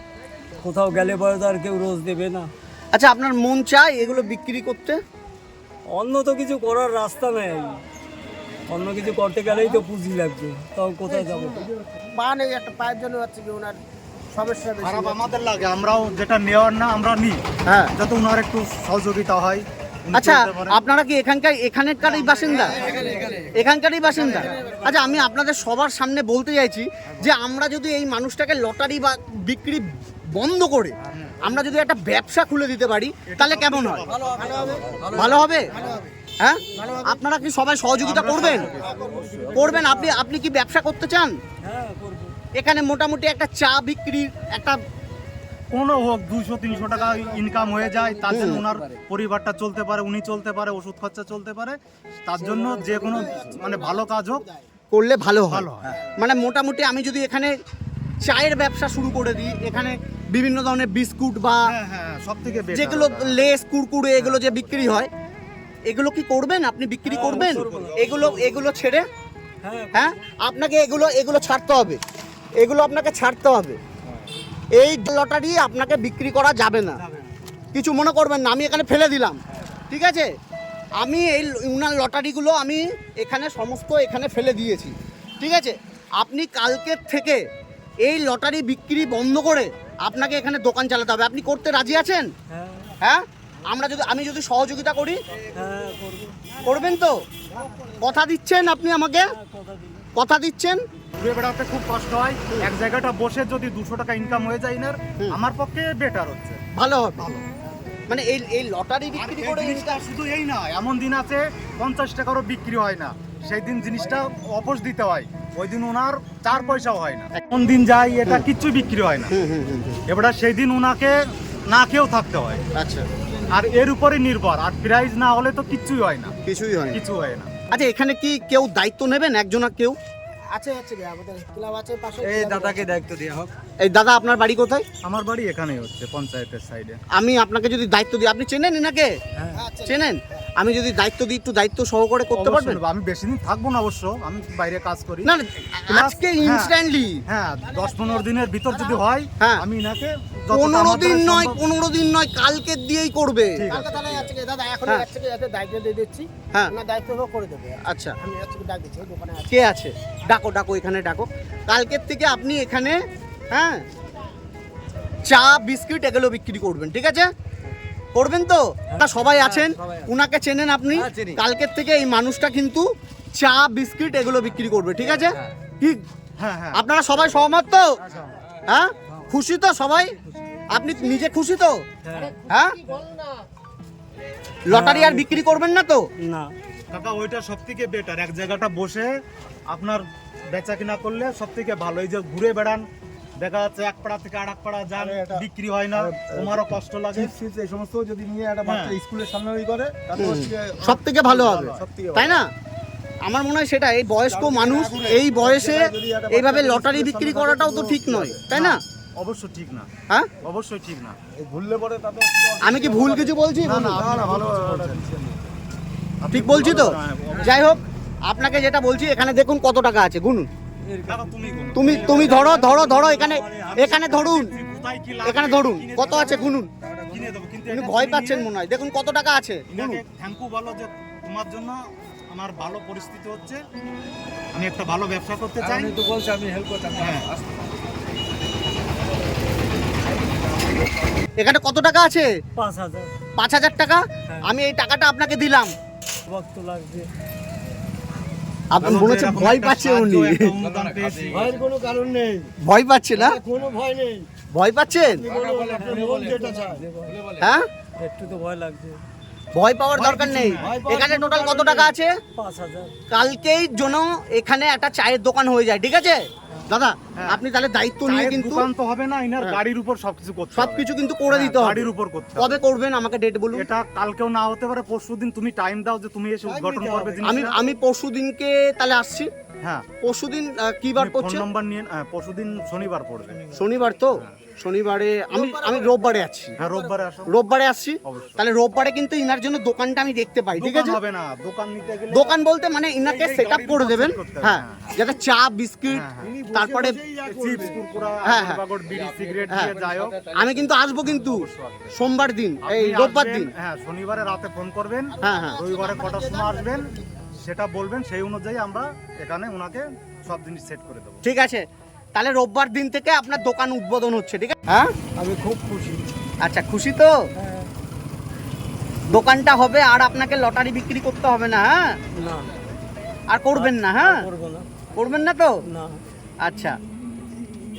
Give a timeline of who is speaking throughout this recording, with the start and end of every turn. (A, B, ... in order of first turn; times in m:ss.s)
0:00.6-0:02.5 A
0:02.9-0:05.0 B
0:05.9-0:07.8 A
0:08.7-0:11.7 A
0:11.2-0:15.2 C
0:14.8-0:17.4 D
0:17.7-0:17.9 B
0:17.9-0:20.8 D
0:20.1-0:34.1 B
0:22.3-0:23.1 D
0:22.8-0:23.6 E
0:22.8-0:23.4 C
0:24.2-0:24.5 D
0:31.1-0:31.4 D
0:33.3-0:35.1 D
0:34.1-0:35.3 E
0:34.2-0:36.1 C
0:35.1-0:35.7 B
0:36.4-0:38.8 B
0:36.7-0:37.1 C
0:38.0-0:39.3 D
0:38.6-0:39.7 C
0:39.1-0:39.9 E
0:39.5-0:41.3 B
0:39.7-0:40.1 A
0:41.6-0:42.3 A
0:42.6-0:44.8 B
0:45.7-0:54.5 D
0:47.5-0:48.2 E
0:48.3-0:48.7 B
0:53.1-0:54.1 C
0:54.9-0:57.5 B
0:55.5-0:56.0 D
0:58.2-1:01.7 B
1:01.6-1:03.4 D
1:02.7-1:05.1 B
1:04.2-1:04.9 D
1:05.9-1:09.1 B
1:07.0-1:08.5 A
1:07.2-1:08.4 D
1:09.6-1:10.2 A
1:09.9-1:12.0 B
1:12.6-1:13.8 B
1:14.8-1:17.0 B
1:17.0-1:17.3 D
1:17.7-1:20.3 B
1:21.0-1:27.4 B
1:28.0-1:32.3 B
1:32.5-1:33.0 A
1:33.0-1:35.2 B
1:35.5-1:36.4 A
1:36.6-1:37.2 B
1:38.0-1:39.3 B
1:39.3-1:40.1 A
1:40.2-1:40.8 B
1:41.2-1:46.6 D
1:46.8-1:47.3 B
1:47.2-1:47.5 D
1:48.1-1:50.0 B
1:49.1-1:59.4 D
1:59.3-2:00.0 B
2:00.1-2:02.6 D
2:02.8-2:03.1 B
2:03.5-2:06.4 D
2:06.4-2:07.0 B
2:06.9-2:07.6 D
2:07.7-2:10.0 B
2:10.5-2:12.9 C
2:12.2-2:13.5 E
2:13.8-2:14.8 B
2:15.0-2:17.0 D
2:17.1-2:19.2 B
2:19.4-2:19.7 A
2:19.6-2:19.9 C
2:19.8-2:22.8 B
2:22.3-2:25.3 D
2:25.2-2:27.2 B
2:25.9-2:31.6 D
2:27.6-2:29.0 C
2:30.5-2:33.6 B
2:33.6-2:34.3 D
2:33.7-2:39.5 C
2:37.8-2:38.2 B
2:39.5-2:43.0 B
2:43.5-2:43.8 B
2:45.3-2:47.3 B
2:48.2-2:56.0 B
2:51.1-2:51.3 E
2:56.4-2:56.8 D
2:56.7-2:58.0 B
2:58.7-3:00.2 B
3:00.7-3:01.8 B
3:02.0-3:02.4 A
3:02.5-3:02.8 B
3:02.9-3:03.4 C
3:04.7-3:06.1 B
3:04.7-3:05.6 A
3:06.2-3:06.5 A
3:06.9-3:09.1 D
3:09.7-3:12.9 D
3:13.4-3:17.4 D
3:15.0-3:15.4 E
3:16.0-3:16.6 E
3:17.2-3:20.5 E
3:18.6-3:19.0 D
3:20.2-3:22.5 B
3:20.3-3:21.5 C
3:21.5-3:21.9 D
3:21.8-3:22.3 E
3:23.2-3:28.8 B
3:24.3-3:25.3 D
3:24.6-3:28.2 C
3:28.1-3:28.4 E
3:28.5-3:29.9 D
3:30.4-3:31.2 D
3:31.4-3:33.2 C
3:32.6-3:34.1 B
3:32.8-3:33.1 E
3:33.6-3:35.1 D
3:34.0-3:35.3 A
3:36.2-3:37.9 D
3:36.3-3:40.5 B
3:40.8-3:44.1 A
3:41.1-3:43.1 D
3:41.8-3:44.5 B
3:43.7-3:48.5 D
3:45.2-3:46.7 B
3:46.8-3:47.2 E
3:47.7-3:50.0 B
3:49.7-3:53.6 D
3:54.5-3:56.0 D
3:55.6-3:57.7 E
3:57.0-3:57.3 D
4:01.4-4:02.3 B
4:02.6-4:03.1 A
4:03.4-4:05.7 B
4:06.3-4:07.1 A
4:08.7-4:10.5 B
4:08.8-4:11.6 D
4:10.6-4:12.5 E
4:11.4-4:12.4 C
4:12.6-4:13.4 B
4:13.2-4:14.2 C
4:13.6-4:14.0 E
4:14.5-4:15.3 B
4:15.1-4:16.8 C
4:15.2-4:17.4 E
4:15.6-4:17.2 A
4:17.4-4:17.7 B
4:18.0-4:19.0 A
4:19.6-4:22.1 B
4:19.9-4:21.0 D
4:20.6-4:21.7 E
4:22.4-4:22.9 A
4:23.1-4:28.7 B
4:27.2-4:27.4 D
4:28.0-4:32.6 D
4:30.6-4:33.7 B
4:33.5-4:37.6 D
4:36.5-4:37.2 E
4:37.2-4:39.3 B
4:39.6-4:39.9 D
4:40.0-4:41.4 B
4:41.0-4:43.5 D
4:43.5-4:46.6 B
4:45.3-4:45.7 D
4:46.6-4:47.4 D
4:47.3-4:51.0 B
4:48.0-4:48.4 D
4:50.6-4:52.4 D
4:52.1-4:57.0 B
4:53.0-4:54.9 D
4:55.9-4:56.4 D
4:56.2-4:57.6 C
4:57.1-4:57.8 E
4:57.2-5:00.3 D
4:58.2-4:58.6 B
4:59.5-4:59.8 B
5:00.3-5:03.5 B
5:01.0-5:02.0 D
5:02.6-5:11.2 D
5:05.2-5:07.0 C
5:05.2-5:05.6 B
5:11.2-5:11.6 B
5:12.2-5:14.9 B
5:15.2-5:16.0 A
5:16.4-5:17.2 B
5:17.4-5:17.7 A
5:19.1-5:22.0 B
5:22.1-5:22.5 A
5:23.3-5:24.2 B
5:23.5-5:24.7 A
5:25.0-5:25.6 B
5:25.7-5:26.0 A
5:26.4-5:26.8 B